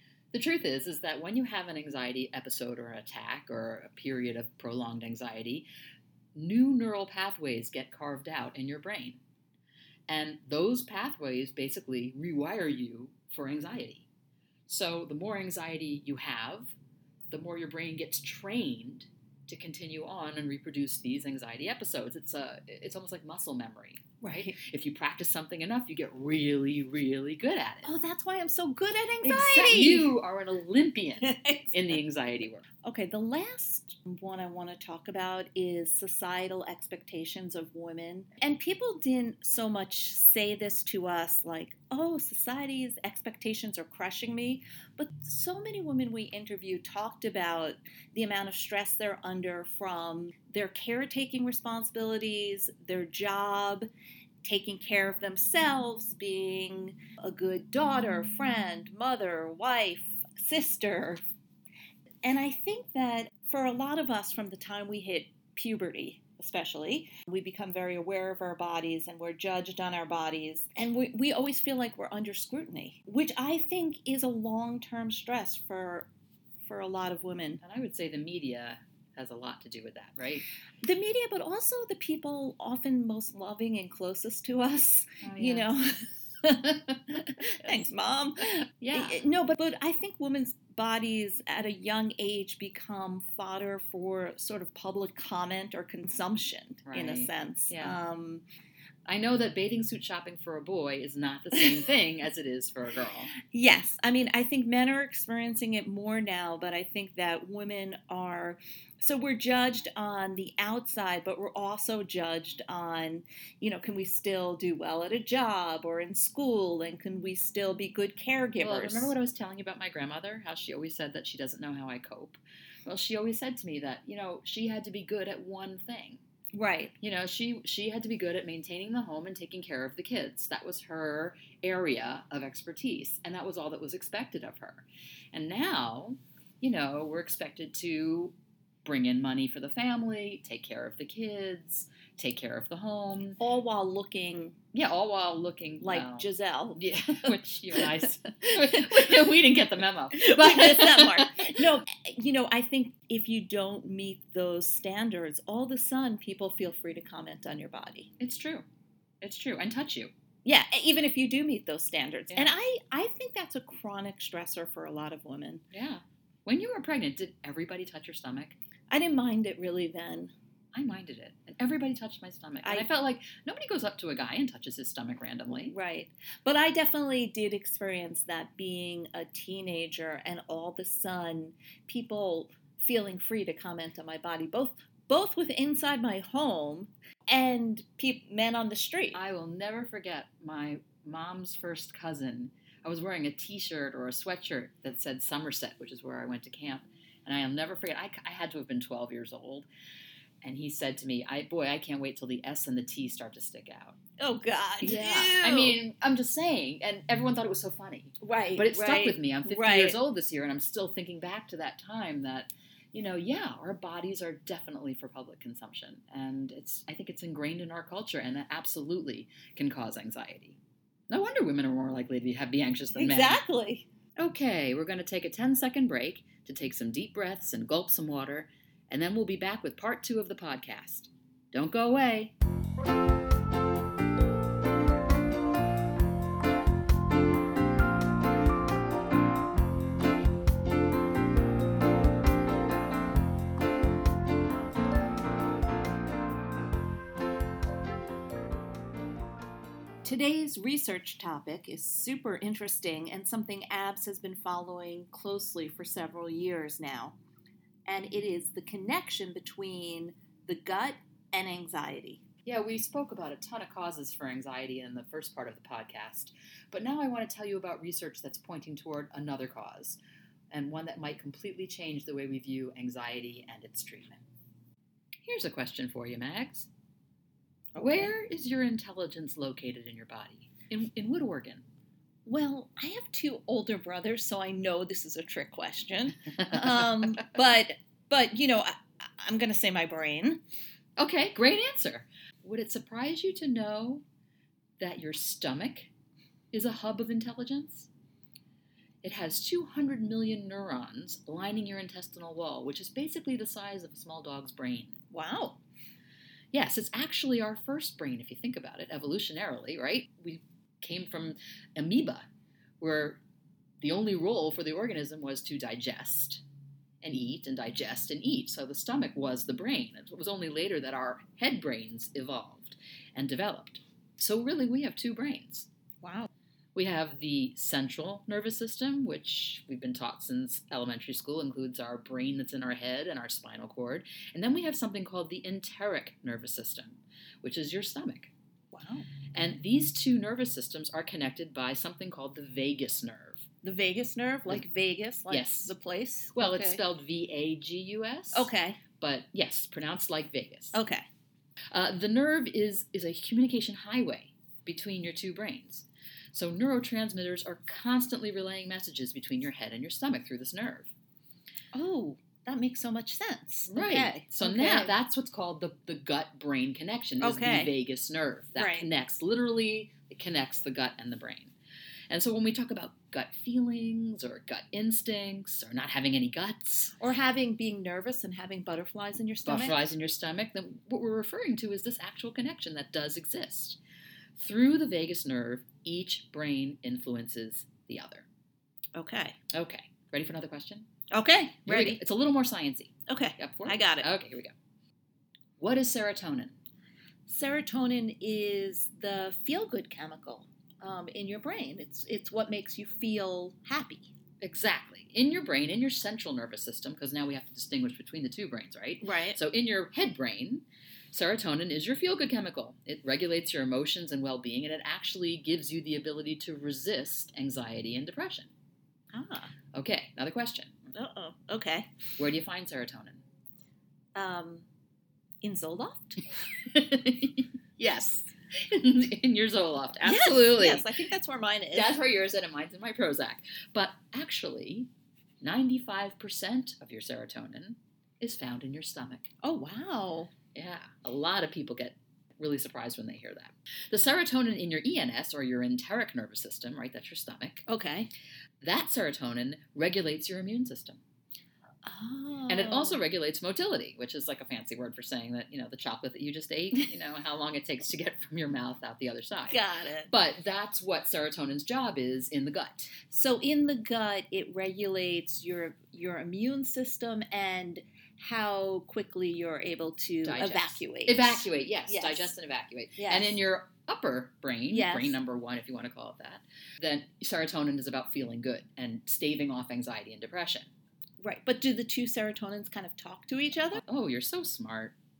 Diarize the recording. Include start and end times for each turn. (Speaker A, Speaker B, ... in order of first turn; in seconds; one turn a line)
Speaker A: 0.3-5.7
Speaker A: 6.3-9.2
Speaker A: 10.1-14.1
Speaker A: 14.7-16.8
Speaker A: 17.3-27.9
Speaker B: 24.2-24.6
Speaker B: 27.8-30.1
Speaker A: 29.2-32.6
Speaker B: 31.2-31.7
Speaker B: 32.8-53.9
Speaker B: 54.4-61.2
Speaker B: 62.2-76.1
Speaker B: 76.6-77.6
Speaker A: 77.6-80.5
Speaker B: 80.8-98.4
Speaker A: 85.2-85.8
Speaker A: 88.8-89.2
Speaker A: 96.8-98.0
Speaker A: 99.0-103.3
Speaker B: 103.4-119.1
Speaker A: 118.6-126.2
Speaker B: 126.5-126.9
Speaker A: 127.0-143.4
Speaker B: 143.4-144.6
Speaker A: 144.7-151.7
Speaker B: 145.8-146.8
Speaker B: 150.1-158.1
Speaker A: 158.2-158.6
Speaker A: 159.2-160.1
Speaker B: 160.4-165.6
Speaker A: 165.7-168.6
Speaker B: 168.9-170.3
Speaker A: 170.7-175.7
Speaker B: 172.6-172.9
Speaker B: 175.7-189.2
Speaker A: 189.1-199.7
Speaker A: 200.4-204.0
Speaker B: 204.2-205.8
Speaker A: 204.8-220.6
Speaker B: 208.2-210.0
Speaker A: 221.1-223.4
Speaker B: 222.9-223.8
Speaker A: 224.2-232.3
Speaker B: 250.0-257.2
Speaker B: 257.9-262.2
Speaker A: 262.4-270.0
Speaker A: 270.5-274.2
Speaker A: 275.2-276.7
Speaker B: 277.7-278.1
Speaker A: 277.8-281.6
Speaker B: 282.2-290.4
Speaker A: 291.0-294.0
Speaker A: 294.8-295.9
Speaker A: 296.5-297.9
Speaker A: 299.0-305.0
Speaker B: 305.1-305.6
Speaker A: 306.5-312.2
Speaker A: 312.8-313.2
Speaker A: 313.8-316.4
Speaker A: 317.0-325.7
Speaker B: 326.0-326.3
Speaker A: 326.7-338.3
Speaker B: 338.7-339.1
Speaker A: 339.3-343.5
Speaker B: 343.6-346.8
Speaker A: 345.3-345.7
Speaker A: 346.3-350.8
Speaker B: 348.3-348.8
Speaker B: 350.7-351.0
Speaker A: 351.7-360.9
Speaker B: 361.7-364.9
Speaker A: 363.7-371.5
Speaker B: 367.2-367.7
Speaker B: 368.6-368.9
Speaker A: 372.1-377.0
Speaker B: 377.0-379.8
Speaker A: 379.4-383.8
Speaker A: 384.4-388.3
Speaker B: 388.9-389.4
Speaker A: 389.5-390.9
Speaker B: 391.1-392.0
Speaker A: 391.6-394.5
Speaker B: 393.1-394.1
Speaker A: 395.6-396.5
Speaker B: 397.3-404.1
Speaker A: 404.4-418.5
Speaker B: 409.0-409.4
Speaker B: 419.1-419.5
Speaker A: 419.7-420.8
Speaker B: 420.9-421.9
Speaker A: 422.2-423.2
Speaker B: 424.1-424.6
Speaker B: 425.4-426.3
Speaker A: 426.6-430.9
Speaker B: 430.0-432.0
Speaker A: 431.7-434.9
Speaker A: 435.4-439.3
Speaker B: 439.4-440.3
Speaker A: 440.5-447.6
Speaker B: 447.7-448.1
Speaker A: 448.6-451.0
Speaker B: 451.8-453.0
Speaker A: 452.5-459.6
Speaker B: 459.5-460.1
Speaker A: 460.1-462.9
Speaker B: 463.1-472.3
Speaker A: 470.2-480.7
Speaker B: 472.9-473.4
Speaker B: 474.7-475.2
Speaker B: 481.2-483.8
Speaker A: 483.8-484.9